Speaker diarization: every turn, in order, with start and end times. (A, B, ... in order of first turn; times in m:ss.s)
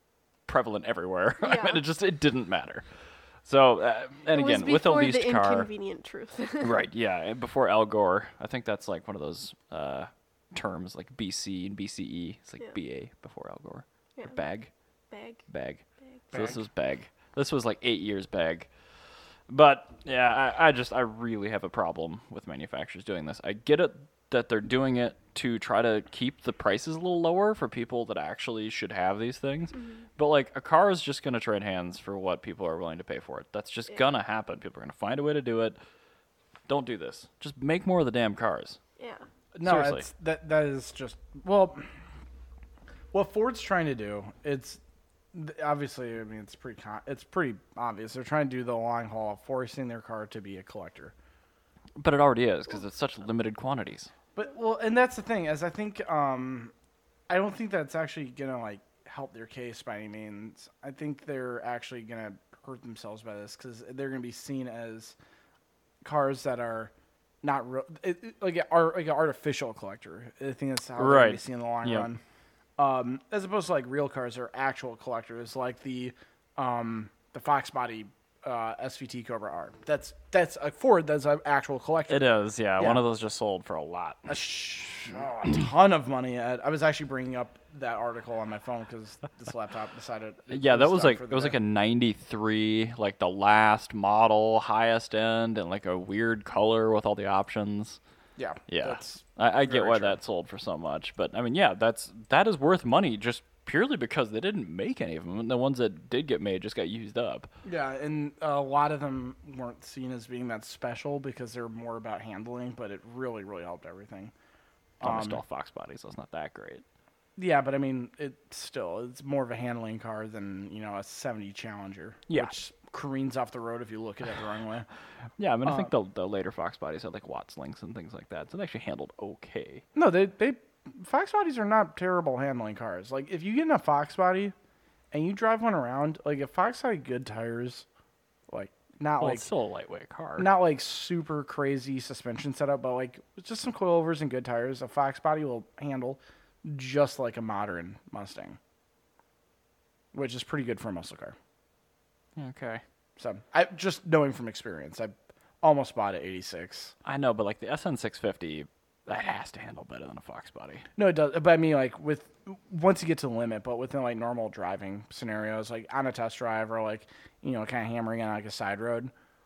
0:00.5-0:02.8 A
0:01.4-0:01.8 B
0:03.4-0:05.7 A
0:04.3-0:06.8 B
0:06.6-0:14.7 A
0:14.2-0:14.4 B
0:15.1-0:15.4 B
0:15.5-0:18.7 A
0:16.3-0:16.6 C
0:19.5-0:35.8 A
0:29.8-0:30.1 B
0:36.7-0:38.8 A
0:39.0-0:39.2 B
0:39.6-0:41.9 C
0:39.6-0:40.1 A
0:43.1-0:44.8 C
0:45.3-0:51.1 C
0:52.0-0:54.1 A
0:54.4-0:56.7 C
0:57.3-1:05.2 C
1:06.0-1:06.9 C
1:07.4-1:12.2 C
1:11.0-1:12.1 A
1:12.8-1:23.0 C
1:22.1-1:24.3 A
1:24.3-1:31.6 C
1:30.5-1:38.0 A
1:38.4-1:40.2 C
1:38.7-1:47.5 A
1:47.6-1:54.3 C
1:55.0-1:55.4 C
1:55.0-1:56.8 A
1:57.4-2:04.9 C
2:05.4-2:09.8 A
2:05.6-2:05.9 C
2:10.0-2:14.6 C
2:15.1-2:17.9 C
2:18.5-2:19.4 C
2:19.2-2:20.5 A
2:20.4-2:28.6 C
2:30.1-2:31.4 C
2:32.4-2:32.8 A
2:33.2-2:37.0 C
2:37.0-2:40.9 A
2:41.0-2:49.1 C